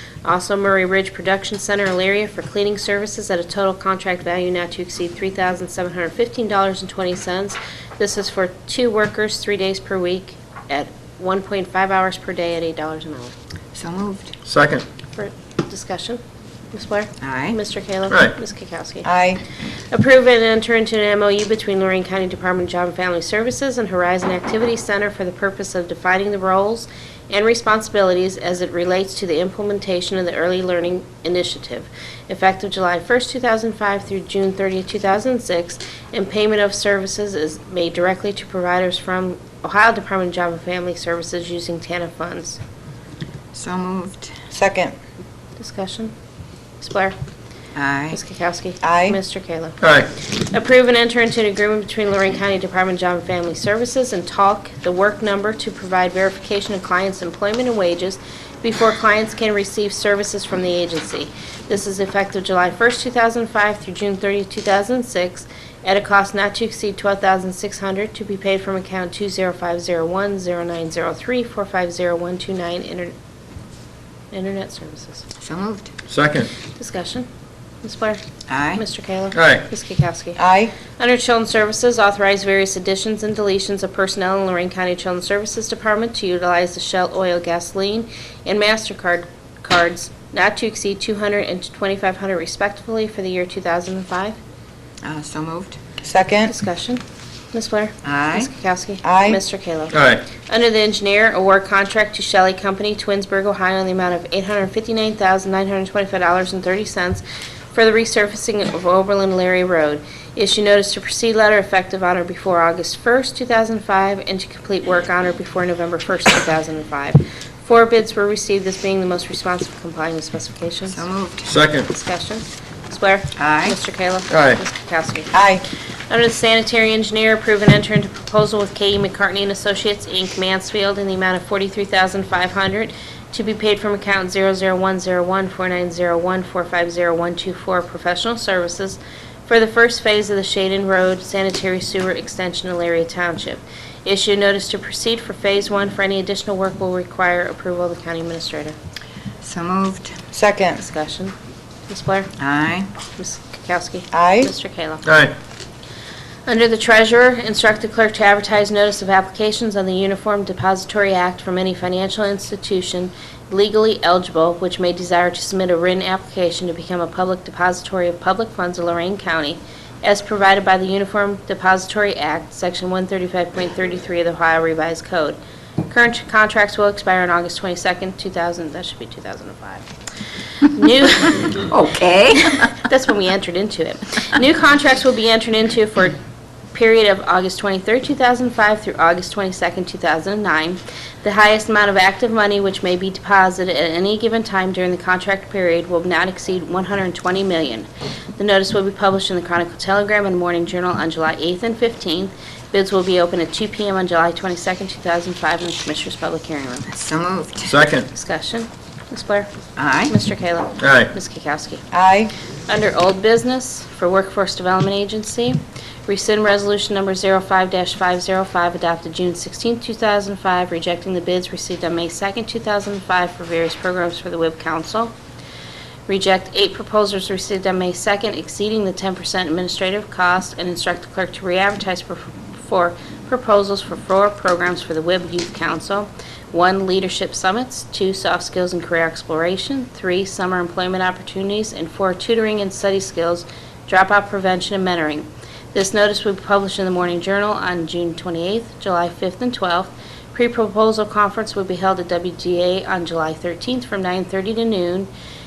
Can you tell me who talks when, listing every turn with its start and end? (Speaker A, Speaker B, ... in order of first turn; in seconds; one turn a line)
Speaker A: 0.2-13.3
Speaker B: 13.8-14.3
Speaker C: 14.5-14.8
Speaker A: 15.2-16.2
Speaker A: 16.7-19.1
Speaker B: 17.2-17.6
Speaker C: 18.1-18.3
Speaker D: 19.0-19.4
Speaker A: 19.8-42.6
Speaker B: 43.5-44.3
Speaker D: 44.5-44.9
Speaker A: 45.6-46.1
Speaker A: 46.8-47.2
Speaker B: 47.8-48.2
Speaker A: 48.1-73.1
Speaker D: 48.8-49.2
Speaker C: 49.8-50.1
Speaker A: 74.3-75.3
Speaker B: 75.4-75.9
Speaker C: 76.1-76.5
Speaker A: 76.8-77.3
Speaker A: 77.8-78.2
Speaker B: 78.5-78.8
Speaker A: 78.7-80.4
Speaker C: 79.3-79.7
Speaker D: 80.4-80.7
Speaker A: 80.9-94.4
Speaker B: 95.0-95.8
Speaker D: 96.0-96.5
Speaker A: 96.5-97.0
Speaker A: 97.5-121.1
Speaker B: 98.0-98.5
Speaker D: 99.0-99.4
Speaker C: 99.9-100.2
Speaker B: 120.9-121.5
Speaker C: 121.5-121.9
Speaker A: 121.9-125.4
Speaker B: 123.4-123.8
Speaker C: 124.3-124.6
Speaker D: 125.3-125.6
Speaker A: 126.1-148.8
Speaker B: 149.4-150.2
Speaker D: 150.3-150.8
Speaker A: 150.8-151.3
Speaker A: 151.9-152.3
Speaker B: 152.4-152.9
Speaker A: 153.2-155.1
Speaker D: 154.1-154.5
Speaker C: 155.1-155.3
Speaker A: 156.5-179.9
Speaker A: 180.7-181.7
Speaker B: 181.7-182.8
Speaker A: 182.6-186.2
Speaker A: 186.7-206.9
Speaker B: 206.9-207.7
Speaker C: 207.7-208.1
Speaker A: 208.1-209.5
Speaker B: 209.8-210.2
Speaker A: 210.1-211.8
Speaker C: 210.8-211.1
Speaker D: 211.9-212.3
Speaker A: 212.7-225.1
Speaker A: 226.1-255.1